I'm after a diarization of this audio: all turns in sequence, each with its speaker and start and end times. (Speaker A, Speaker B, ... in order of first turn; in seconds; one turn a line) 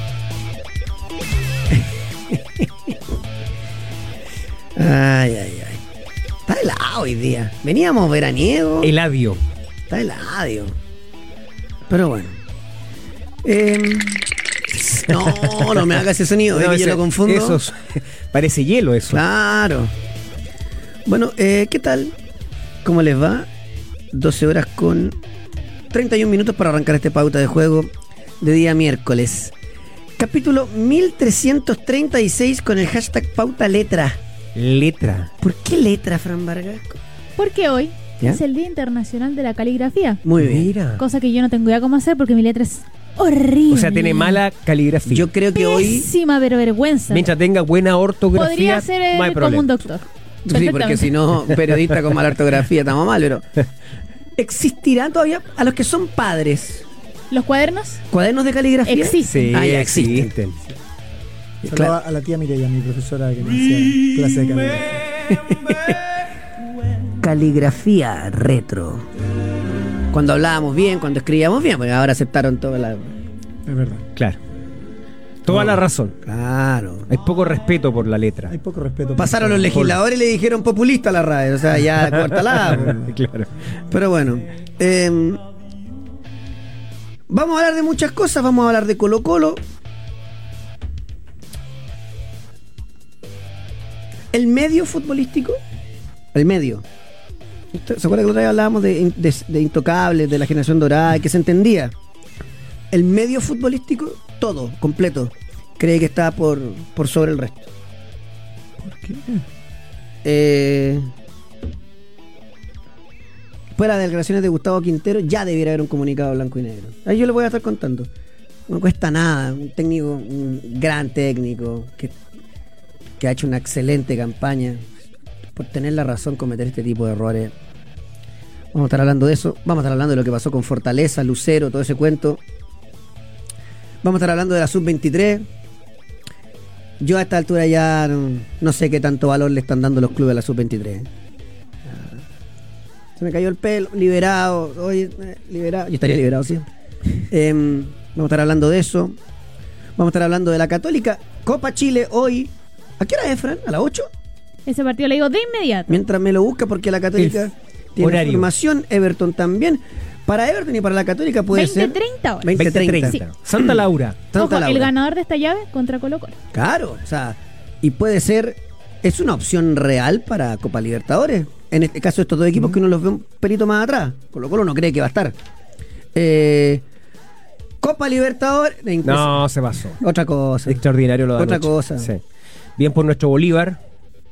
Speaker A: 1.7-2.9
Speaker A: 4.8-5.8
Speaker A: 6.5-8.9
Speaker B: 8.8-9.4
Speaker A: 9.9-10.7
Speaker A: 11.9-12.4
Speaker A: 13.4-17.6
Speaker B: 15.4-16.0
Speaker B: 16.5-19.2
Speaker A: 19.1-19.9
Speaker A: 21.1-22.1
Speaker A: 22.8-23.5
Speaker A: 24.1-25.2
Speaker A: 25.9-27.9
Speaker A: 28.4-29.5
Speaker A: 30.2-34.2
Speaker B: 34.5-35.3
Speaker A: 35.4-37.0
Speaker C: 37.4-40.2
Speaker A: 40.2-40.7
Speaker B: 40.4-41.0
Speaker C: 41.0-44.4
Speaker B: 43.7-45.3
Speaker A: 45.1-46.1
Speaker C: 45.5-47.2
Speaker B: 47.1-49.7
Speaker C: 48.3-51.1
Speaker A: 50.5-53.5
Speaker A: 54.4-56.9
Speaker C: 57.3-58.0
Speaker A: 58.1-60.3
Speaker C: 58.8-59.5
Speaker B: 59.2-60.6
Speaker D: 61.6-65.0
Speaker A: 61.6-61.9
Speaker A: 65.3-66.0
Speaker A: 67.2-69.1
Speaker A: 70.1-73.2
Speaker D: 73.7-74.0
Speaker B: 75.4-76.2
Speaker A: 76.2-77.1
Speaker B: 77.1-78.5
Speaker D: 78.5-79.9
Speaker A: 79.2-83.0
Speaker B: 79.7-80.0
Speaker B: 82.0-83.6
Speaker A: 83.9-85.4
Speaker A: 87.3-89.6
Speaker A: 94.3-95.6
Speaker A: 96.3-96.8
Speaker A: 97.7-101.9
Speaker A: 102.9-107.7
Speaker D: 108.8-109.4
Speaker A: 110.2-111.1
Speaker A: 113.8-118.1
Speaker A: 118.7-122.1
Speaker A: 123.2-124.9
Speaker A: 125.5-127.5
Speaker A: 128.7-132.4
Speaker A: 134.0-135.4
Speaker A: 137.0-141.1
Speaker A: 141.9-142.2
Speaker A: 143.2-146.7
Speaker A: 147.3-149.2
Speaker A: 150.0-154.1
Speaker C: 154.7-156.0
Speaker A: 155.9-164.9
Speaker B: 157.2-157.4
Speaker B: 158.0-158.5
Speaker C: 161.5-163.2
Speaker B: 162.5-164.2
Speaker C: 164.3-166.4
Speaker A: 166.5-175.3
Speaker A: 176.1-176.8
Speaker A: 177.8-179.4
Speaker B: 179.0-180.0
Speaker A: 180.0-180.8
Speaker B: 180.7-182.2
Speaker A: 181.4-182.1
Speaker B: 182.8-183.8